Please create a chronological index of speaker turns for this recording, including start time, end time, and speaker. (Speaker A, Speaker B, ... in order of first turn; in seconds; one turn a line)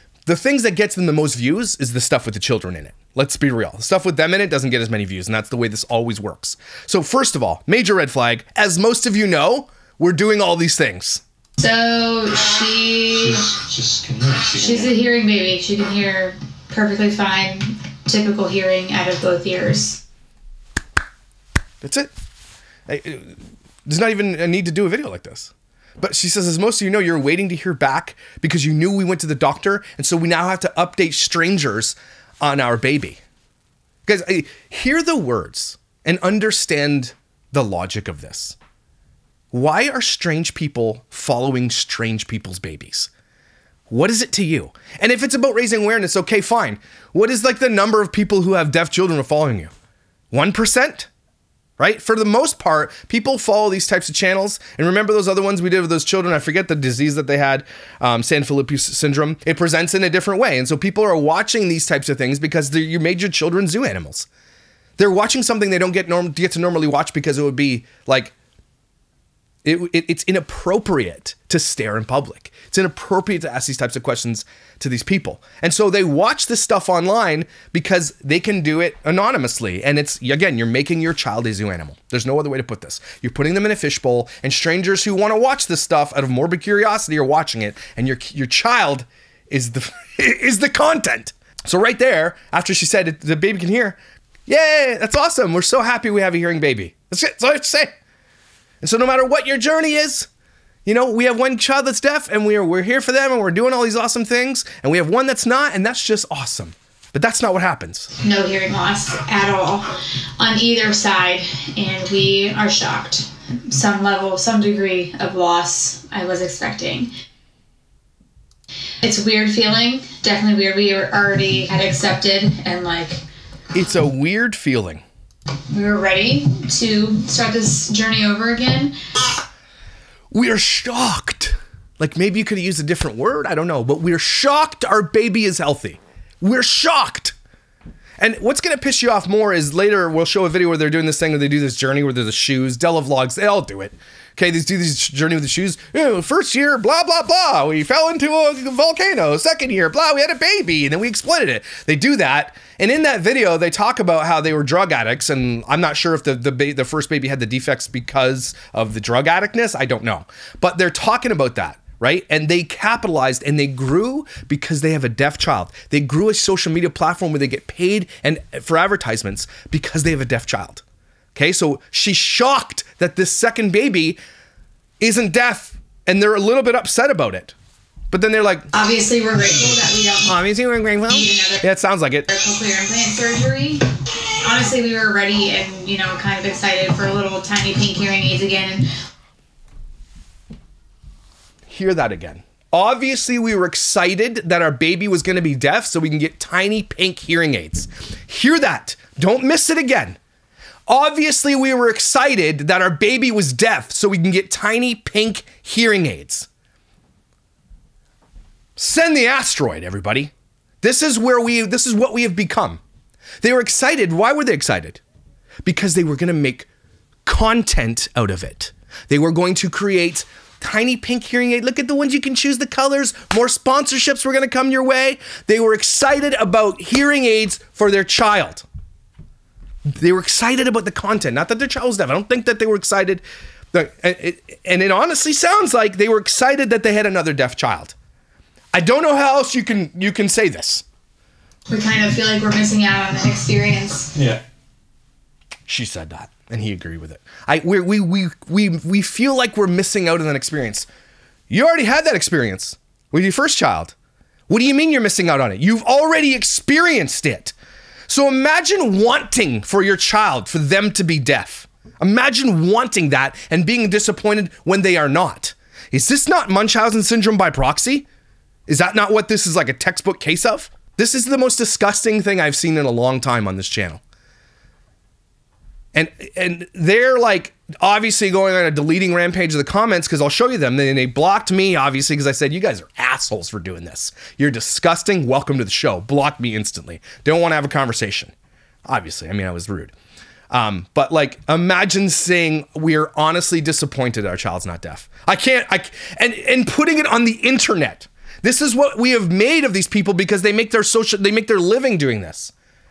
Speaker A: 0.3-11.2
Speaker B: 11.6-13.5
Speaker C: 13.2-15.0
Speaker B: 14.6-20.0
Speaker A: 21.8-22.1
Speaker A: 22.9-33.2
Speaker A: 34.1-38.6
Speaker A: 39.5-43.1
Speaker A: 43.9-49.7
Speaker A: 50.3-51.1
Speaker A: 51.8-64.3
Speaker A: 65.0-68.3
Speaker A: 69.6-97.9
Speaker A: 98.8-100.3
Speaker A: 100.8-108.1
Speaker B: 108.2-117.1
Speaker B: 119.0-123.2
Speaker A: 123.7-125.0
Speaker B: 125.7-129.0
Speaker A: 130.3-137.3
Speaker A: 138.2-170.8
Speaker A: 171.3-174.2
Speaker A: 175.0-177.6
Speaker A: 178.1-178.7
Speaker B: 178.7-180.4
Speaker A: 180.2-182.3
Speaker B: 181.1-181.7
Speaker B: 182.3-183.9
Speaker B: 184.4-188.9
Speaker A: 191.7-200.2
Speaker A: 200.9-206.5
Speaker A: 208.8-212.8
Speaker A: 213.4-215.0
Speaker A: 215.6-216.7
Speaker A: 217.2-228.7
Speaker A: 229.9-238.0
Speaker A: 238.7-240.8
Speaker B: 241.7-244.1
Speaker C: 244.2-244.4
Speaker A: 245.7-250.9
Speaker A: 251.5-253.9
Speaker A: 254.5-257.5
Speaker A: 258.1-268.1
Speaker A: 268.7-274.0
Speaker A: 275.9-288.3
Speaker A: 288.9-289.9
Speaker A: 290.5-302.5